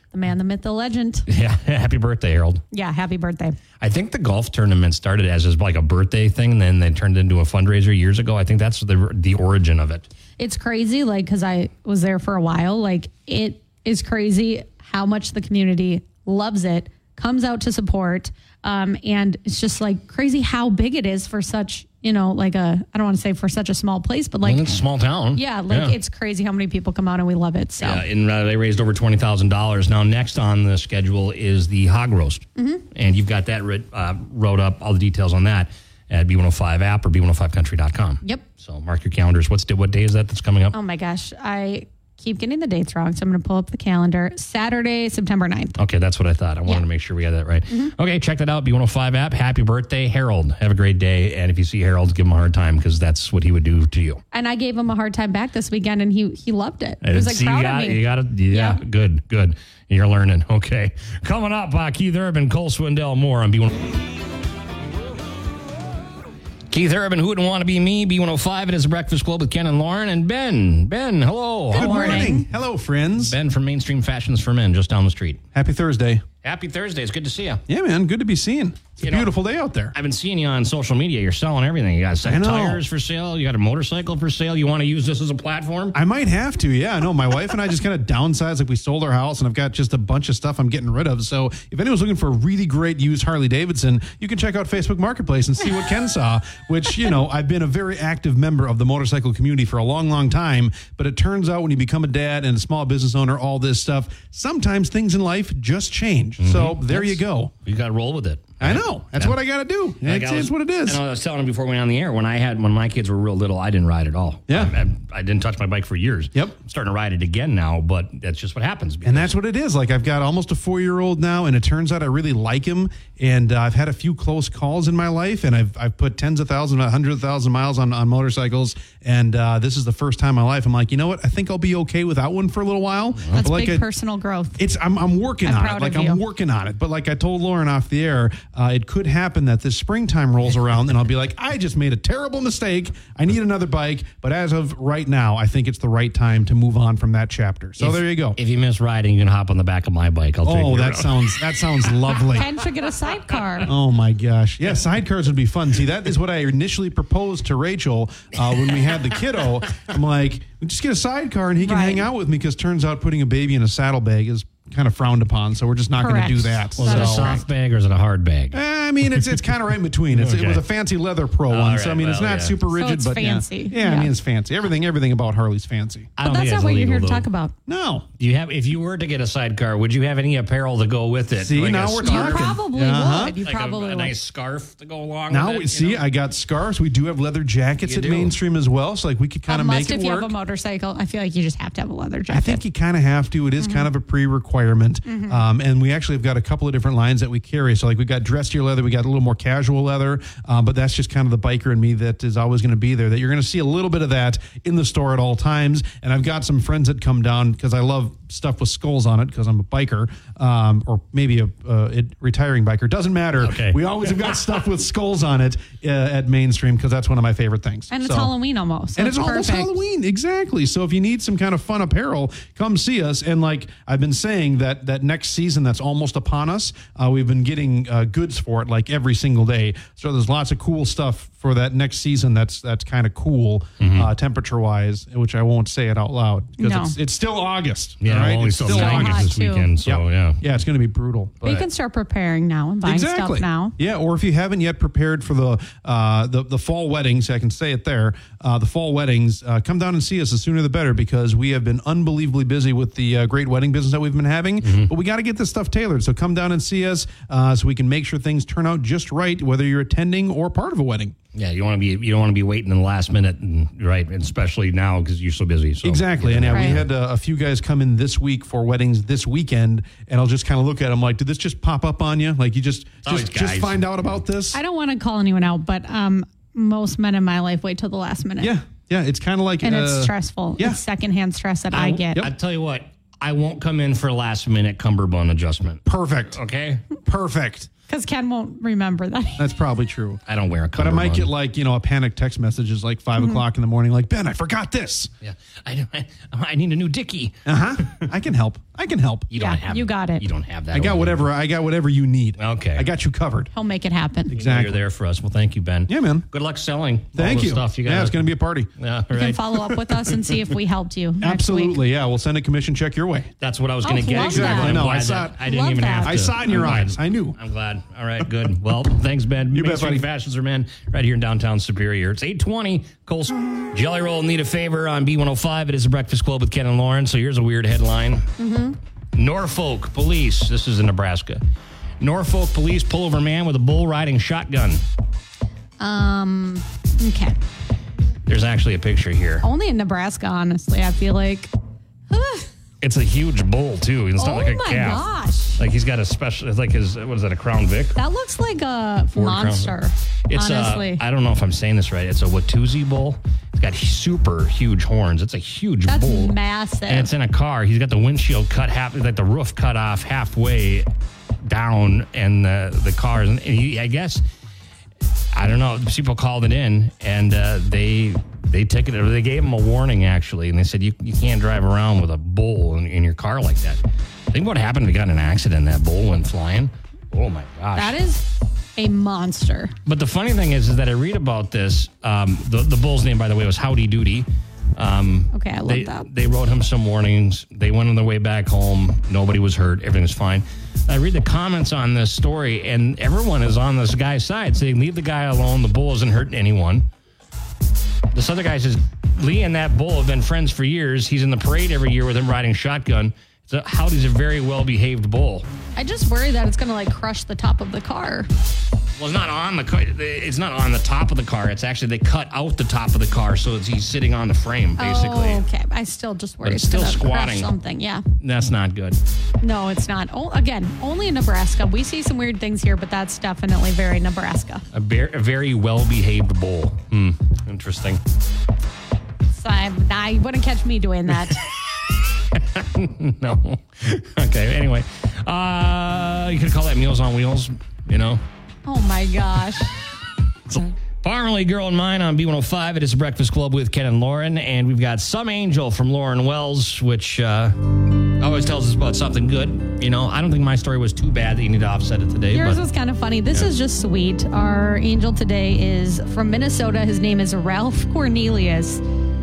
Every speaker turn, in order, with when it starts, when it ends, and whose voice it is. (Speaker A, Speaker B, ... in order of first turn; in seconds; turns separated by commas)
Speaker A: 0.1-1.3, Speaker B: 1.3-2.6, Speaker A: 2.7-3.6, Speaker B: 3.8-10.1, Speaker A: 10.4-24.8, Speaker B: 24.4-26.0, Speaker A: 25.3-28.0, Speaker B: 27.8-40.8, Speaker A: 32.6-32.8, Speaker A: 40.7-45.8, Speaker B: 45.8-54.2, Speaker A: 54.3-58.8, Speaker B: 57.0-63.9, Speaker B: 66.7-72.4, Speaker A: 71.7-72.5, Speaker C: 71.7-73.4, Speaker B: 73.2-75.4, Speaker C: 75.5-76.2, Speaker B: 76.4-77.6, Speaker C: 77.7-80.0, Speaker B: 79.0-79.3, Speaker B: 79.9-86.0, Speaker C: 82.2-82.8, Speaker C: 85.9-107.5, Speaker B: 106.4-109.4, Speaker C: 108.6-111.0, Speaker B: 110.0-119.3, Speaker C: 114.5-114.7, Speaker C: 119.0-133.9, Speaker B: 133.2-133.4, Speaker A: 133.3-134.6, Speaker C: 134.6-148.4, Speaker A: 135.4-136.2, Speaker B: 147.8-152.2, Speaker C: 150.4-152.5, Speaker A: 152.3-153.7, Speaker C: 153.7-167.4, Speaker A: 161.6-162.1, Speaker A: 166.0-167.4, Speaker B: 166.8-169.4, Speaker C: 168.5-176.1, Speaker B: 170.1-170.6, Speaker B: 171.5-172.6, Speaker A: 172.7-174.1, Speaker B: 176.2-177.3, Speaker A: 176.2-177.6, Speaker C: 177.7-178.1, Speaker B: 178.2-182.6, Speaker C: 181.4-183.4, Speaker A: 182.0-184.2, Speaker B: 183.4-186.1, Speaker C: 185.3-190.3, Speaker B: 187.8-188.4, Speaker A: 189.5-192.6, Speaker C: 192.3-218.3, Speaker A: 193.6-193.9, Speaker A: 195.1-195.4, Speaker B: 213.4-214.4, Speaker A: 217.9-219.8, Speaker C: 219.0-241.6, Speaker B: 233.8-234.1, Speaker A: 236.6-237.0, Speaker B: 238.0-240.4, Speaker A: 238.6-239.7, Speaker A: 241.4-243.8, Speaker C: 242.8-261.1, Speaker B: 254.6-254.9, Speaker B: 261.3-266.9, Speaker C: 265.8-274.6, Speaker A: 266.5-266.8, Speaker B: 273.0-274.2, Speaker A: 274.5-278.6, Speaker C: 278.4-280.8, Speaker A: 279.6-282.3, Speaker B: 281.7-286.9, Speaker C: 285.9-286.4, Speaker C: 287.0-287.7, Speaker A: 287.9-289.4, Speaker C: 289.4-290.2, Speaker B: 290.3-291.3, Speaker C: 290.8-295.1, Speaker A: 293.2-293.4, Speaker B: 295.2-297.4, Speaker C: 297.4-299.3, Speaker B: 299.3-301.3, Speaker A: 299.3-300.3, Speaker C: 300.7-303.5, Speaker B: 302.4-302.9, Speaker A: 303.5-304.4, Speaker C: 304.3-304.8, Speaker B: 304.3-310.2, Speaker C: 305.9-306.2, Speaker C: 307.1-308.7, Speaker A: 309.1-311.8, Speaker C: 311.2-313.3, Speaker B: 313.4-328.3, Speaker A: 313.8-316.3, Speaker C: 314.1-315.5, Speaker C: 316.0-317.4, Speaker C: 319.5-320.1, Speaker A: 328.4-328.8, Speaker B: 329.1-331.4, Speaker B: 332.0-334.8, Speaker A: 335.8-337.4, Speaker B: 338.3-339.5, Speaker A: 339.4-341.5, Speaker A: 342.1-342.5, Speaker B: 342.8-345.1, Speaker A: 344.2-345.6, Speaker B: 345.6-348.0, Speaker A: 348.0-351.0, Speaker B: 349.1-360.9, Speaker A: 355.9-357.1, Speaker B: 361.4-364.2, Speaker B: 365.3-378.0, Speaker A: 377.8-379.8, Speaker B: 379.9-396.9, Speaker A: 385.3-386.1, Speaker B: 398.1-405.5, Speaker A: 405.8-408.3, Speaker B: 409.0-415.4, Speaker A: 414.8-418.0, Speaker B: 416.4-417.5, Speaker B: 418.2-419.0, Speaker A: 419.4-424.6, Speaker B: 424.7-428.0, Speaker A: 429.3-431.4, Speaker B: 432.2-438.2, Speaker A: 438.7-439.7, Speaker B: 440.5-447.6, Speaker B: 448.2-452.7, Speaker A: 452.3-458.8